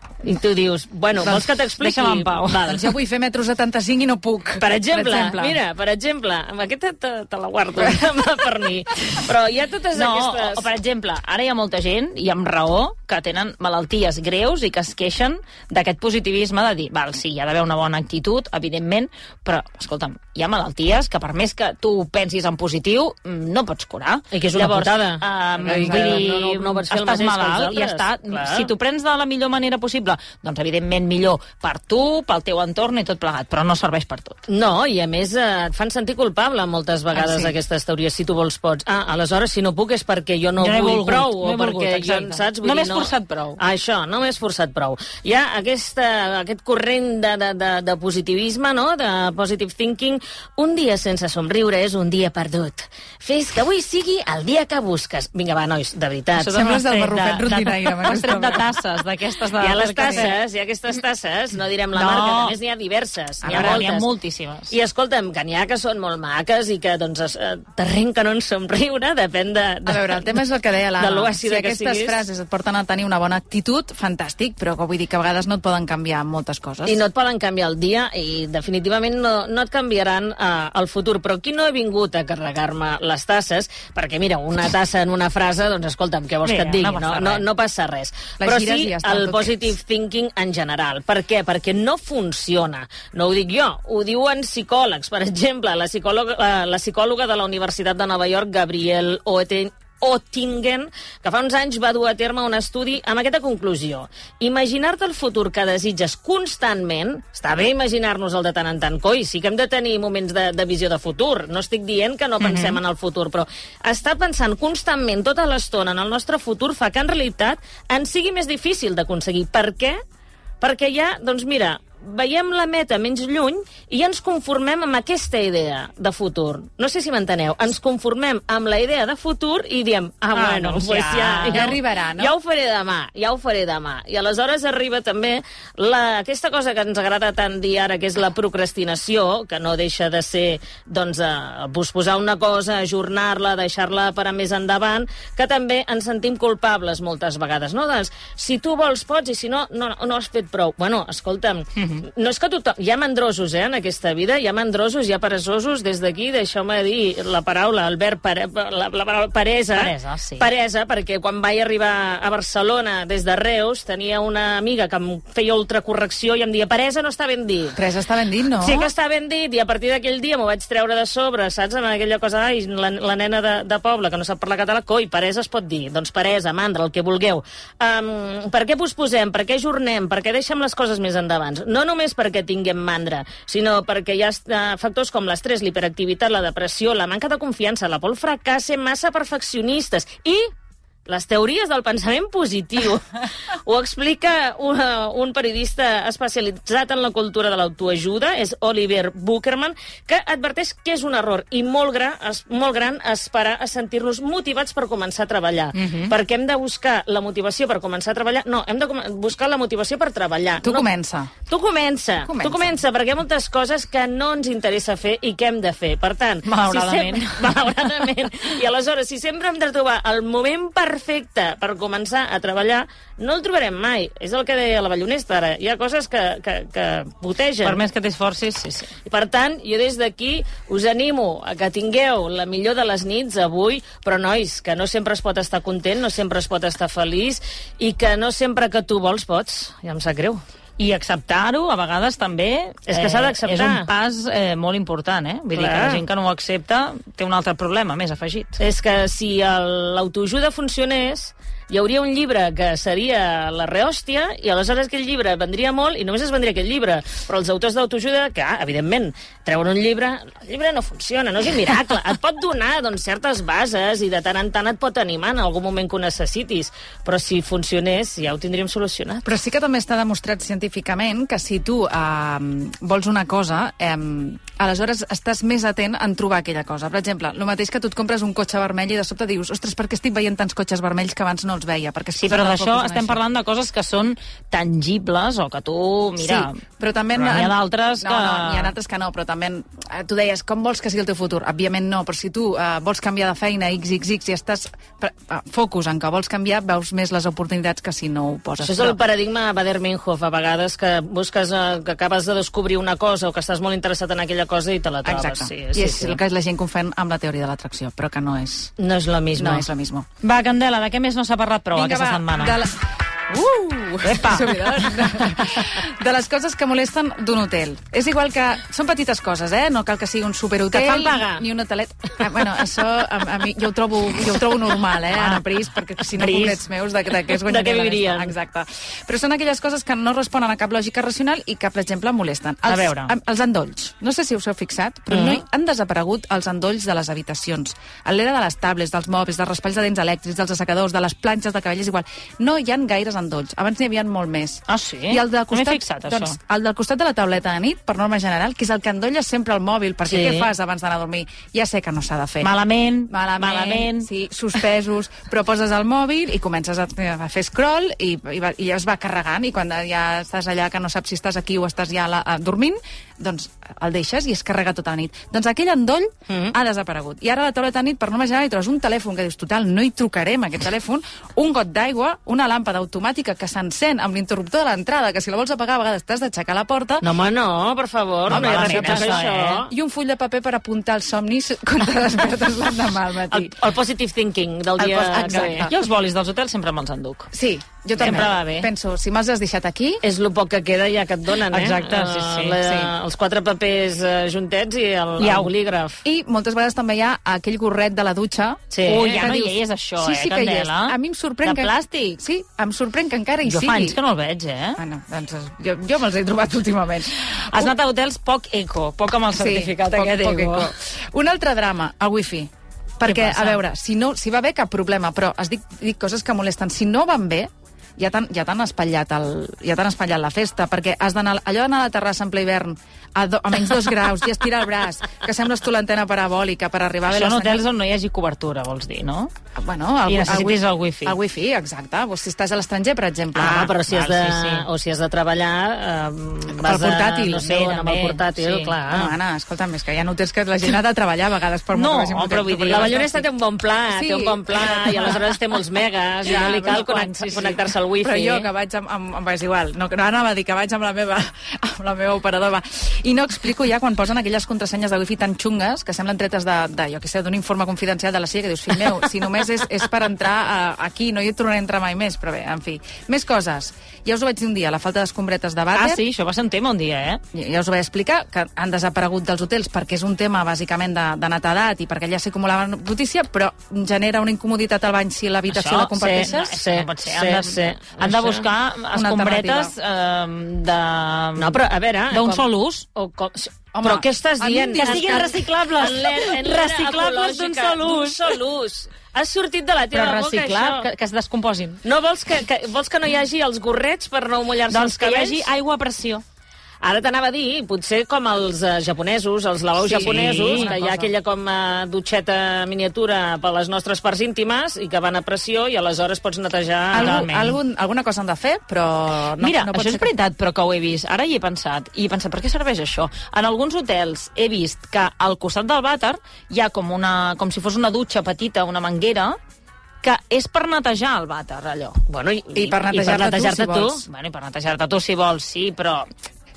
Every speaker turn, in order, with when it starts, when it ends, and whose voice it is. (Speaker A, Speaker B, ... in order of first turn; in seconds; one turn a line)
Speaker A: 0.2-2.9
Speaker B: 1.8-2.8
Speaker C: 2.7-5.6
Speaker A: 4.6-10.7
Speaker B: 9.9-34.4
Speaker A: 24.3-28.7
Speaker C: 25.7-26.2
Speaker A: 34.5-56.6
Speaker B: 37.1-37.5
Speaker B: 40.6-43.6
Speaker B: 56.4-60.4
Speaker C: 56.4-58.6
Speaker A: 59.6-64.1
Speaker C: 60.0-60.3
Speaker B: 61.9-62.6
Speaker C: 63.4-63.8
Speaker B: 63.4-64.7
Speaker A: 64.7-70.4
Speaker C: 69.9-77.0
Speaker A: 71.0-72.2
Speaker A: 76.9-120.0
Speaker B: 86.4-87.4
Speaker C: 88.4-89.6
Speaker B: 112.4-112.8
Speaker A: 120.6-167.8
Speaker C: 130.3-132.3
Speaker B: 130.9-131.8
Speaker B: 151.8-152.1
Speaker B: 159.7-160.5
Speaker C: 167.8-168.9
Speaker A: 168.5-190.5
Speaker A: 191.1-210.9
Speaker C: 210.6-211.3
Speaker A: 211.5-227.8
Speaker C: 212.2-212.7
Speaker B: 216.4-218.1
Speaker B: 227.6-228.9
Speaker A: 229.1-240.4
Speaker B: 240.8-248.6
Speaker A: 242.9-243.9
Speaker A: 245.6-246.0
Speaker A: 248.6-269.3
Speaker C: 269.2-283.2
Speaker B: 282.2-286.6
Speaker C: 286.2-299.0
Speaker B: 287.1-288.7
Speaker A: 298.6-306.2
Speaker C: 305.0-308.7
Speaker A: 308.8-309.7
Speaker C: 309.4-310.1
Speaker B: 310.2-312.6
Speaker C: 311.8-312.8
Speaker C: 313.3-352.5
Speaker B: 314.0-315.3
Speaker A: 320.7-321.5
Speaker B: 325.1-325.4
Speaker B: 326.1-326.6
Speaker A: 327.4-328.4
Speaker B: 332.6-333.1
Speaker A: 335.1-335.4
Speaker B: 344.7-346.4
Speaker A: 350.1-350.5
Speaker B: 352.4-354.1
Speaker C: 353.1-377.0
Speaker A: 366.3-366.6
Speaker A: 377.0-379.7
Speaker B: 378.3-379.6
Speaker C: 378.3-383.6
Speaker A: 383.3-385.7
Speaker C: 384.8-385.7
Speaker B: 385.3-387.3
Speaker C: 387.3-390.0
Speaker B: 388.0-388.7
Speaker A: 388.0-388.3
Speaker A: 390.0-396.0
Speaker B: 391.5-392.6
Speaker C: 392.6-392.9
Speaker B: 395.2-395.5
Speaker C: 396.0-404.0
Speaker A: 398.7-399.4
Speaker B: 398.9-402.2
Speaker B: 403.5-404.8
Speaker C: 404.8-407.7
Speaker B: 407.3-410.7
Speaker C: 409.3-427.6
Speaker B: 413.1-413.6
Speaker B: 427.1-429.3
Speaker C: 429.6-433.7
Speaker B: 430.1-431.2
Speaker B: 433.4-434.7
Speaker A: 433.4-439.1
Speaker C: 436.6-437.4
Speaker B: 437.4-438.8
Speaker C: 438.9-443.2
Speaker B: 441.7-443.0
Speaker A: 442.7-448.5
Speaker C: 443.9-445.2
Speaker B: 444.8-445.2
Speaker B: 446.3-447.6
Speaker C: 448.0-466.0
Speaker B: 465.7-467.2
Speaker C: 467.3-476.6
Speaker B: 475.5-481.6
Speaker A: 476.0-478.5
Speaker C: 478.9-479.7
Speaker A: 481.4-490.9
Speaker B: 482.1-482.9
Speaker C: 483.7-485.4
Speaker B: 484.8-488.4
Speaker B: 489.9-491.8
Speaker A: 491.8-495.4
Speaker B: 494.7-496.2
Speaker A: 496.8-507.2
Speaker B: 499.8-501.1
Speaker C: 500.0-500.8
Speaker C: 506.9-510.1
Speaker B: 506.9-507.6
Speaker B: 509.4-519.4
Speaker B: 520.0-522.0
Speaker A: 522.1-524.0
Speaker C: 522.5-524.0
Speaker B: 524.0-526.1